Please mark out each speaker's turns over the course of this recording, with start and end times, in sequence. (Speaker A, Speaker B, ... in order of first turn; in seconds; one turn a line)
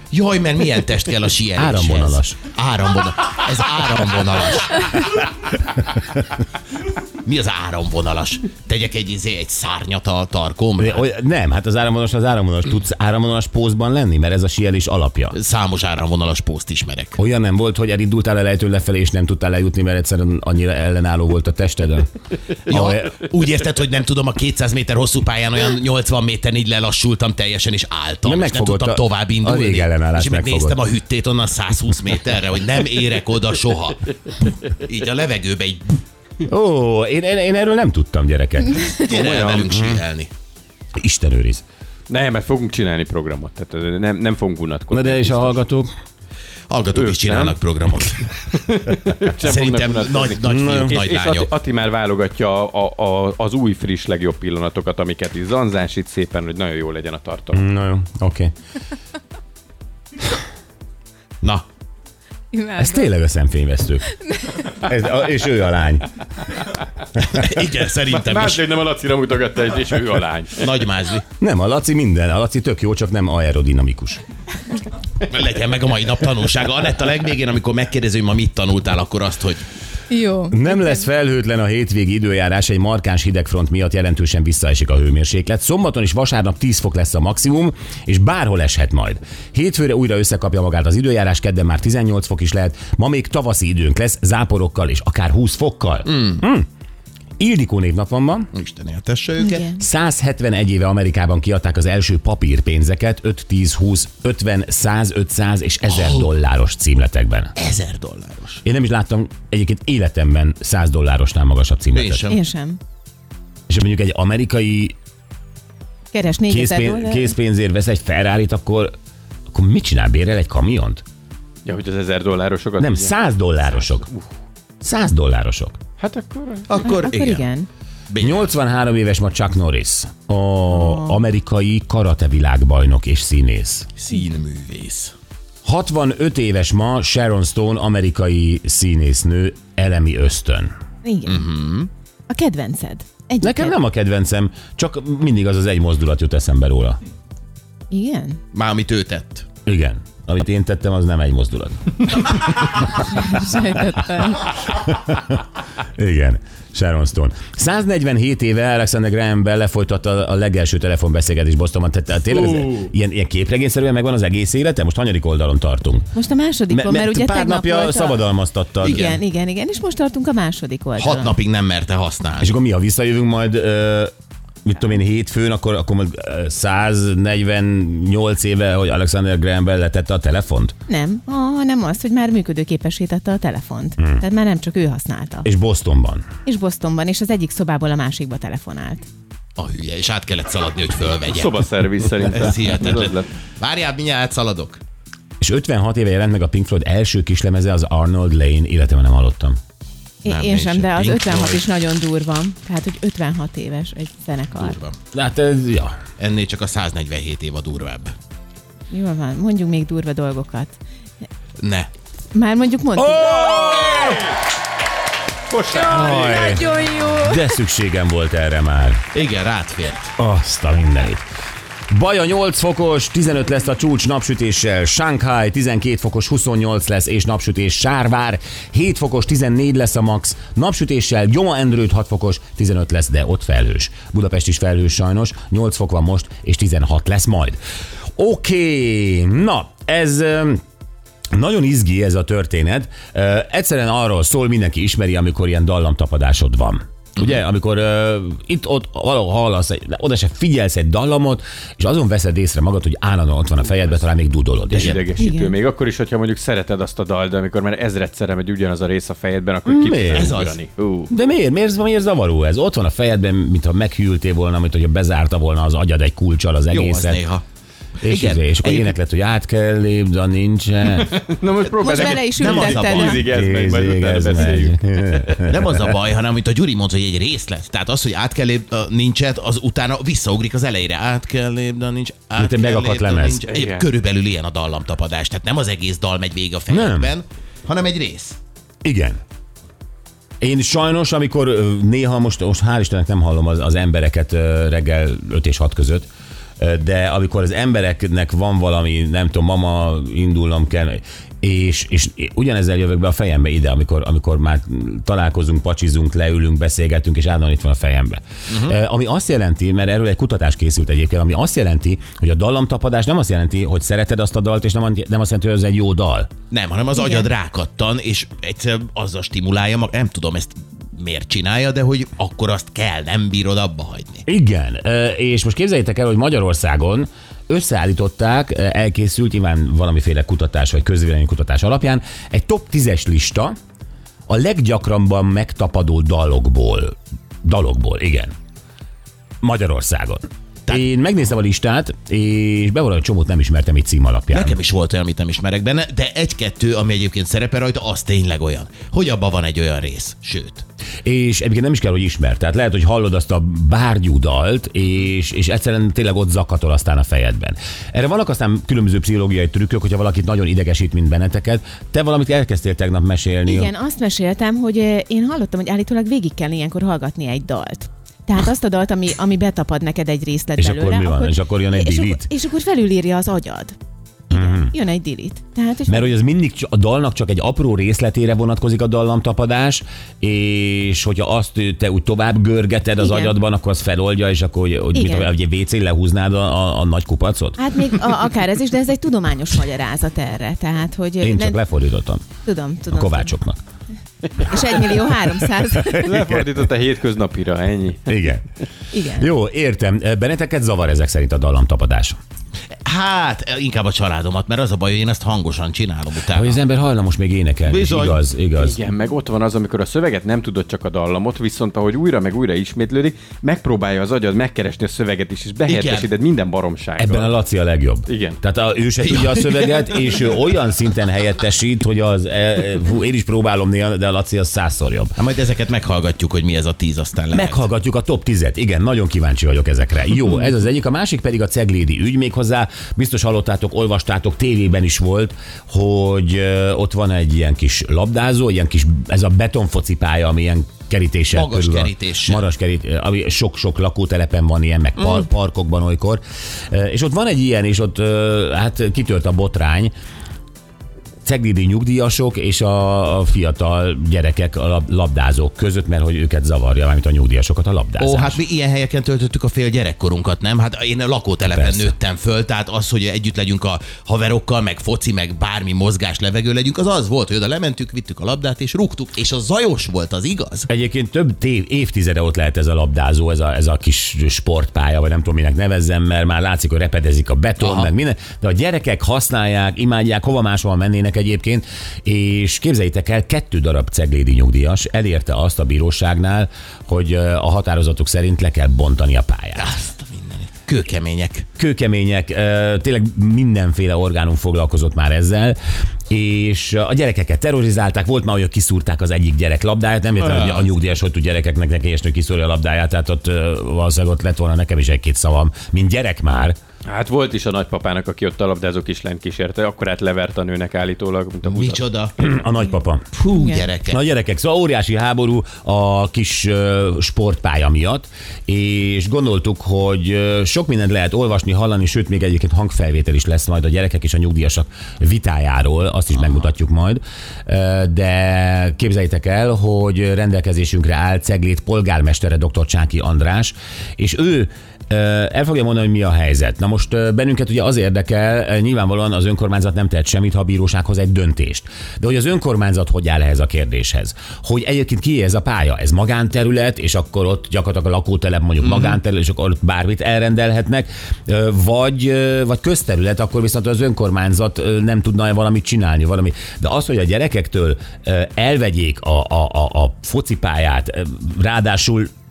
Speaker A: 0.1-5.2
Speaker B: 1.5-2.4
Speaker A: 7.2-11.1
Speaker B: 10.8-15.4
Speaker A: 15.3-17.2
Speaker B: 17.1-22.1
Speaker A: 22.7-34.1
Speaker B: 22.7-23.2
Speaker B: 28.2-30.8
Speaker A: 34.7-36.0
Speaker B: 36.5-39.0
Speaker A: 38.9-40.3
Speaker C: 39.1-39.7
Speaker B: 39.6-40.0
Speaker B: 41.0-41.6
Speaker C: 42.1-45.6
Speaker B: 44.9-45.9
Speaker A: 46.7-48.4
Speaker C: 46.9-47.6
Speaker C: 48.5-57.6
Speaker A: 49.4-51.5
Speaker B: 50.4-51.0
Speaker B: 57.5-58.5
Speaker D: 62.5-63.1
Speaker B: 62.8-66.1
Speaker D: 64.1-64.8
Speaker A: 67.3-68.7
Speaker C: 68.0-70.8
Speaker A: 70.6-71.2
Speaker B: 71.4-74.2
Speaker A: 75.2-79.6
Speaker D: 80.1-81.1
Speaker B: 80.5-96.7
Speaker A: 96.1-96.4
Speaker B: 97.4-98.5
Speaker A: 98.5-99.6
Speaker D: 99.4-99.8
Speaker B: 99.6-107.5
Speaker A: 105.9-106.3
Speaker A: 107.5-108.6
Speaker B: 108.6-112.3
Speaker A: 111.9-112.4
Speaker D: 112.3-112.8
Speaker B: 113.7-114.9
Speaker D: 116.1-117.3
Speaker B: 116.5-118.9
Speaker B: 119.5-121.0
Speaker C: 121.6-123.2
Speaker B: 122.8-124.1
Speaker C: 123.8-124.3
Speaker B: 124.8-125.8
Speaker C: 126.0-126.9
Speaker A: 126.7-127.5
Speaker D: 126.8-127.7
Speaker A: 128.1-128.5
Speaker B: 128.2-133.9
Speaker D: 130.7-131.2
Speaker A: 134.0-135.1
Speaker B: 135.6-140.7
Speaker D: 141.0-141.4
Speaker A: 141.2-141.9
Speaker D: 142.3-143.8
Speaker B: 143.4-147.0
Speaker D: 147.9-148.4
Speaker A: 148.5-149.4
Speaker B: 149.6-153.8
Speaker D: 153.1-154.6
Speaker B: 154.7-166.1
Speaker D: 166.1-171.4
Speaker B: 166.7-169.1
Speaker A: 168.8-169.2
Speaker A: 171.0-172.5
Speaker B: 172.4-174.1
Speaker B: 174.6-180.7
Speaker D: 180.9-185.5
Speaker B: 184.0-184.2
Speaker B: 185.4-186.2
Speaker D: 186.4-189.0
Speaker A: 189.6-191.6
Speaker C: 191.2-193.3
Speaker A: 192.2-194.8
Speaker B: 195.4-199.6
Speaker D: 200.2-204.8
Speaker A: 200.2-201.6
Speaker A: 204.6-204.9
Speaker B: 205.1-206.0
Speaker A: 206.2-208.1
Speaker D: 208.9-210.8
Speaker A: 211.6-211.9
Speaker D: 212.3-213.9
Speaker B: 212.9-214.2
Speaker C: 213.7-214.2
Speaker C: 215.5-216.2
Speaker D: 215.8-217.5
Speaker B: 215.9-219.0
Speaker A: 219.1-220.1
Speaker B: 220.2-221.2
Speaker B: 221.9-237.6
Speaker B: 238.2-240.6
Speaker B: 241.3-255.0
Speaker C: 254.7-261.1
Speaker A: 254.7-255.1
Speaker D: 255.2-255.5
Speaker B: 259.6-260.3
Speaker A: 260.1-260.6
Speaker B: 261.1-267.2
Speaker A: 266.7-267.4
Speaker B: 268.0-271.1
Speaker A: 268.0-268.9
Speaker C: 271.0-275.6
Speaker A: 271.8-273.3
Speaker D: 271.8-273.2
Speaker B: 273.1-275.9
Speaker A: 275.4-288.4
Speaker B: 282.4-283.5
Speaker C: 283.5-283.9
Speaker B: 286.7-287.1
Speaker B: 288.8-289.2
Speaker B: 290.4-296.1
Speaker B: 296.6-316.3
Speaker A: 308.5-308.8
Speaker A: 316.5-324.2
Speaker D: 316.9-317.3
Speaker B: 324.3-333.5
Speaker B: 334.3-338.3
Speaker B: 339.4-344.6
Speaker A: 344.3-350.6
Speaker B: 351.0-363.7
Speaker D: 363.4-373.7
Speaker B: 370.6-372.3
Speaker B: 374.3-374.7
Speaker D: 374.3-376.1
Speaker B: 375.9-387.6
Speaker D: 383.0-383.3
Speaker D: 384.9-385.3
Speaker D: 387.6-391.6
Speaker B: 391.2-392.2
Speaker D: 392.4-393.3
Speaker B: 392.9-393.6
Speaker D: 394.4-396.1
Speaker B: 395.7-396.5
Speaker C: 396.0-398.1
Speaker B: 398.1-398.4
Speaker D: 398.9-399.3
Speaker B: 399.0-402.2
Speaker A: 402.9-406.6
Speaker B: 406.3-408.8
Speaker A: 407.6-408.2
Speaker C: 408.6-417.4
Speaker A: 415.7-416.1
Speaker B: 417.0-425.1
Speaker C: 418.1-418.4
Speaker A: 419.0-420.4
Speaker A: 425.2-427.6
Speaker B: 427.3-449.9
Speaker A: 441.3-442.4
Speaker B: 451.2-458.4
Speaker A: 458.0-470.7
Speaker B: 461.5-461.9
Speaker B: 470.7-489.8
Speaker A: 477.6-477.9
Speaker A: 489.6-491.4
Speaker B: 491.6-495.6
Speaker B: 496.1-506.6
Speaker C: 506.9-511.9
Speaker A: 511.4-512.1
Speaker B: 512.2-513.2
Speaker A: 513.2-514.0
Speaker D: 513.3-513.6
Speaker B: 513.9-562.1
Speaker A: 548.6-549.0